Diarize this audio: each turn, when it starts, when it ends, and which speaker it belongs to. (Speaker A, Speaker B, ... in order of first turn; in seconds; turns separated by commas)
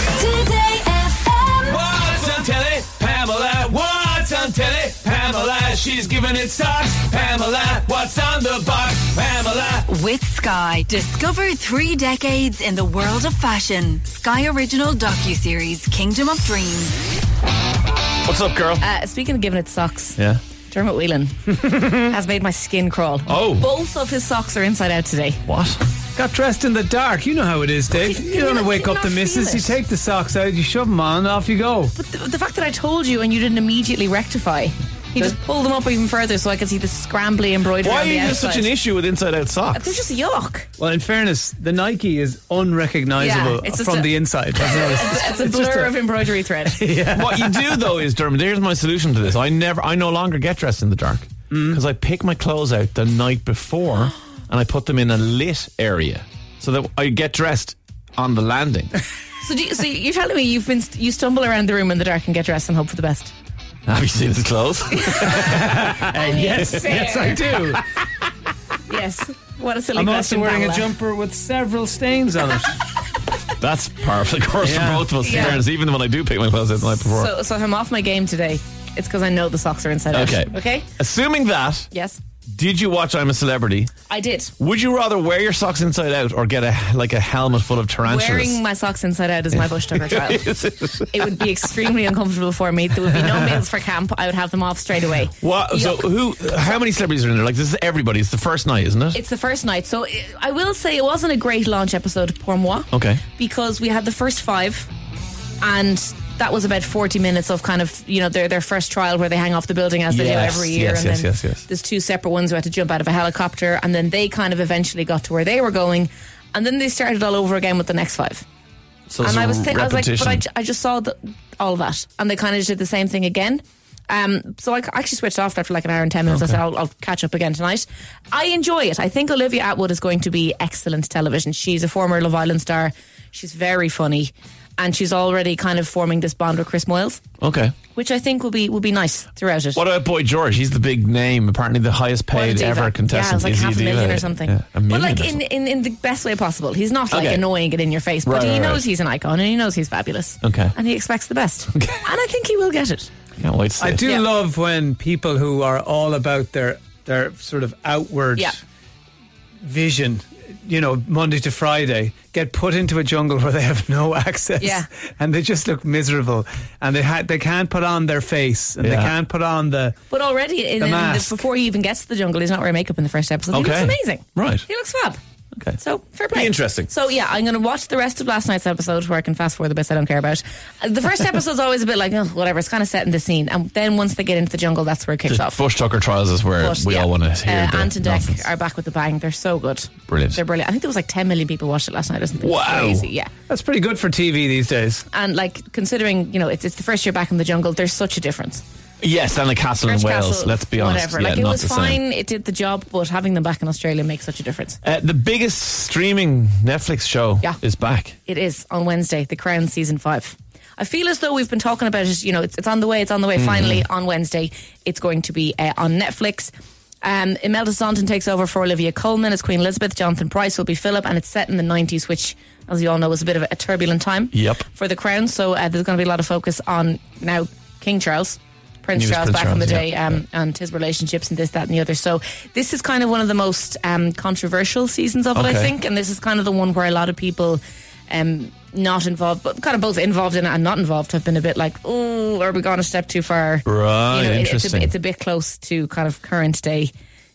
Speaker A: 0.1-1.8, Speaker B: 1.6-9.9, Speaker A: 9.8-17.0, Speaker B: 18.2-18.8, Speaker C: 18.8-25.4, Speaker B: 23.3-23.7, Speaker B: 25.5-25.8, Speaker D: 26.2-31.9, Speaker C: 27.9-29.8, Speaker C: 31.9-38.7, Speaker B: 37.8-40.0, Speaker C: 39.7-40.7, Speaker D: 40.8-46.1, Speaker C: 43.2-46.9, Speaker D: 46.7-47.7, Speaker B: 47.1-58.9, Speaker D: 51.5-51.8, Speaker C: 59.4-63.3, Speaker B: 63.9-65.9, Speaker C: 64.9-67.5, Speaker D: 65.5-67.8, Speaker C: 68.9-70.9, Speaker D: 69.9-72.8, Speaker B: 73.6-77.3, Speaker D: 74.6-75.4, Speaker C: 75.2-75.6, Speaker C: 77.1-80.9, Speaker B: 80.1-81.9, Speaker C: 81.9-82.2, Speaker B: 82.5-83.9, Speaker C: 84.1-84.5, Speaker B: 84.6-88.6, Speaker C: 88.0-90.5, Speaker B: 89.6-91.7, Speaker C: 91.1-96.6, Speaker B: 95.4-99.2, Speaker C: 99.1-104.9, Speaker B: 102.9-103.2, Speaker C: 105.6-118.4, Speaker B: 110.1-111.6, Speaker B: 119.1-120.4, Speaker C: 119.2-137.2, Speaker B: 126.3-126.6, Speaker B: 137.4-137.8, Speaker C: 137.9-139.8, Speaker B: 139.8-145.4, Speaker C: 142.3-153.1, Speaker B: 147.1-147.4, Speaker B: 148.2-148.9, Speaker B: 150.4-150.8, Speaker B: 151.7-152.0, Speaker B: 153.4-154.1, Speaker D: 153.8-158.6, Speaker C: 154.0-154.3, Speaker D: 159.6-170.0, Speaker C: 164.6-164.9, Speaker B: 168.8-169.1, Speaker C: 170.1-175.2, Speaker D: 170.8-171.4, Speaker B: 173.5-174.7, Speaker C: 175.8-185.6, Speaker B: 176.3-176.9, Speaker B: 185.3-188.5, Speaker C: 186.6-193.3, Speaker B: 190.1-190.4, Speaker B: 192.4-193.1, Speaker D: 193.5-195.0, Speaker C: 195.1-198.6, Speaker B: 199.0-202.0, Speaker C: 199.8-204.8, Speaker B: 204.8-208.2, Speaker C: 208.2-246.9, Speaker B: 213.4-213.8, Speaker B: 224.3-224.7, Speaker B: 228.9-230.2, Speaker B: 235.3-235.7, Speaker B: 243.7-244.9